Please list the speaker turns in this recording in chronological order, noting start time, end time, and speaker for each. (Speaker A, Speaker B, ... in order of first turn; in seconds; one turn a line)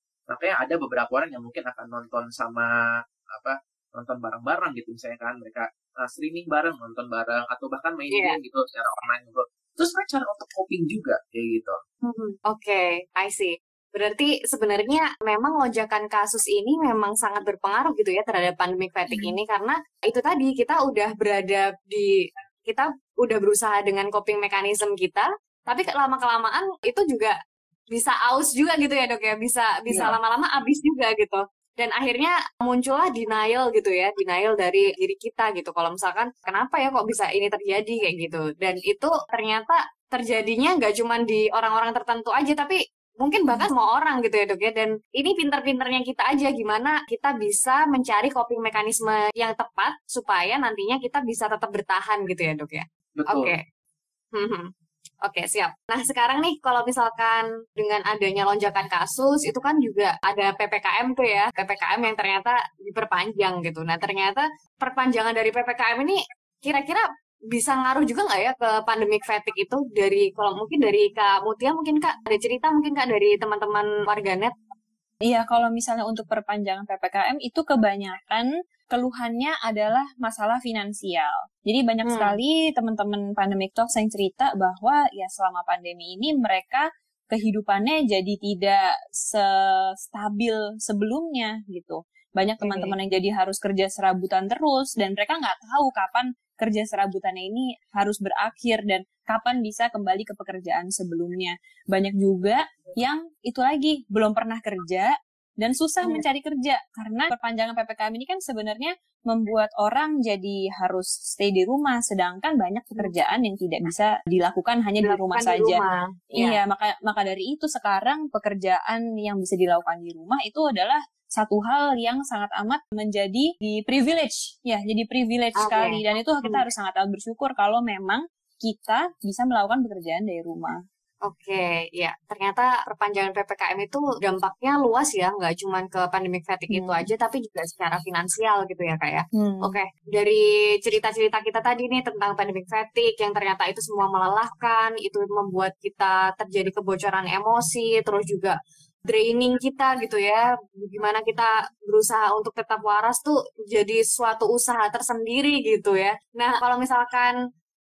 Speaker A: 0.3-2.7
Speaker A: 3.3-11.8
Speaker B: 12.0-22.1
Speaker B: 22.7-27.4
Speaker B: 27.9-53.6
Speaker A: 29.9-30.2
Speaker A: 53.2-53.5
Speaker B: 54.3-54.7
Speaker B: 55.2-74.5
Speaker C: 75.3-89.5
Speaker B: 82.1-82.3
Speaker C: 90.1-115.8
Speaker B: 92.6-92.9
Speaker B: 115.0-116.6
Speaker C: 116.3-130.8
Speaker B: 125.6-126.6
Speaker B: 131.2-148.6
Speaker C: 136.7-137.1
Speaker C: 139.4-139.8
Speaker B: 149.1-157.3